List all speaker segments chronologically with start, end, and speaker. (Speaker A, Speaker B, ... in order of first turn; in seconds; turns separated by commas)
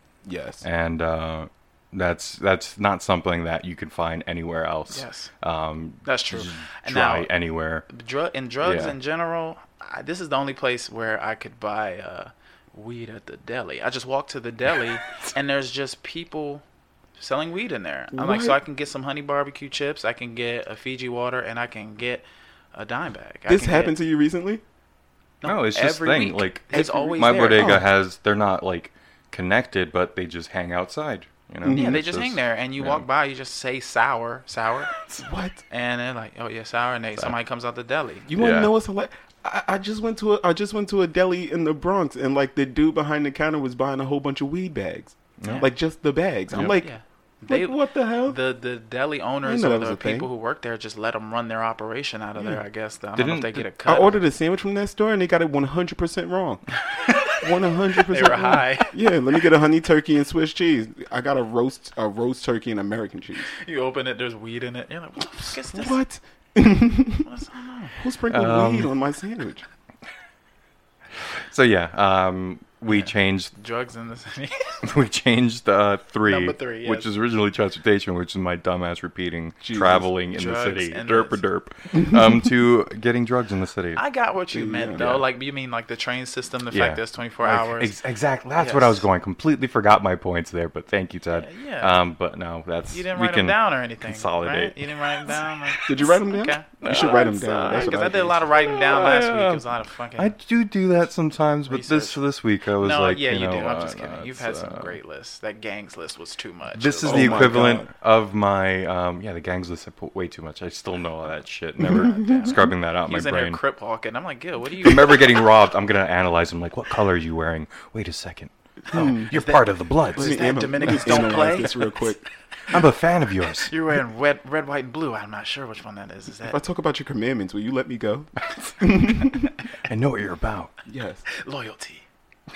Speaker A: 0.2-0.6, Speaker B: 0.6-7.9, Speaker C: 4.9-5.3, Speaker C: 6.0-7.3, Speaker C: 7.9-16.6, Speaker B: 8.6-8.9, Speaker C: 17.2-23.9, Speaker A: 18.1-18.6, Speaker A: 23.5-24.6, Speaker C: 25.4-27.8, Speaker B: 25.4-33.0, Speaker A: 26.7-27.9, Speaker A: 31.6-32.0, Speaker C: 31.7-34.9, Speaker A: 35.2-35.6, Speaker C: 35.7-38.3, Speaker A: 38.3-46.9, Speaker B: 38.4-38.7, Speaker B: 45.4-45.7, Speaker C: 45.4-45.7, Speaker B: 46.5-46.8, Speaker C: 46.6-54.2, Speaker A: 47.5-48.4, Speaker A: 49.4-50.3, Speaker B: 53.2-53.7, Speaker A: 53.9-56.6, Speaker C: 56.9-57.4, Speaker A: 57.3-63.5, Speaker C: 58.1-59.0, Speaker C: 63.5-66.0, Speaker A: 65.7-67.3, Speaker C: 67.2-68.0, Speaker A: 68.0-69.7, Speaker B: 68.3-68.9, Speaker B: 71.2-73.5, Speaker C: 72.9-74.8, Speaker B: 74.8-84.0, Speaker C: 76.3-77.1, Speaker A: 79.6-80.1, Speaker C: 80.3-81.4, Speaker C: 84.0-87.9, Speaker A: 84.5-85.1, Speaker B: 85.0-85.2, Speaker B: 86.7-95.5, Speaker C: 88.6-89.0, Speaker C: 91.3-92.0, Speaker C: 92.9-100.3, Speaker A: 95.9-98.4, Speaker B: 96.8-105.0, Speaker C: 101.7-102.2, Speaker C: 102.8-107.6, Speaker B: 106.8-113.6, Speaker A: 107.0-107.9, Speaker A: 111.8-112.6, Speaker C: 111.9-115.4, Speaker B: 114.8-121.5, Speaker A: 118.9-119.4, Speaker C: 118.9-122.2, Speaker A: 120.1-122.2, Speaker B: 122.7-123.7, Speaker C: 123.6-126.6, Speaker A: 126.5-129.5, Speaker B: 129.8-130.7, Speaker A: 130.9-131.2, Speaker C: 131.3-132.1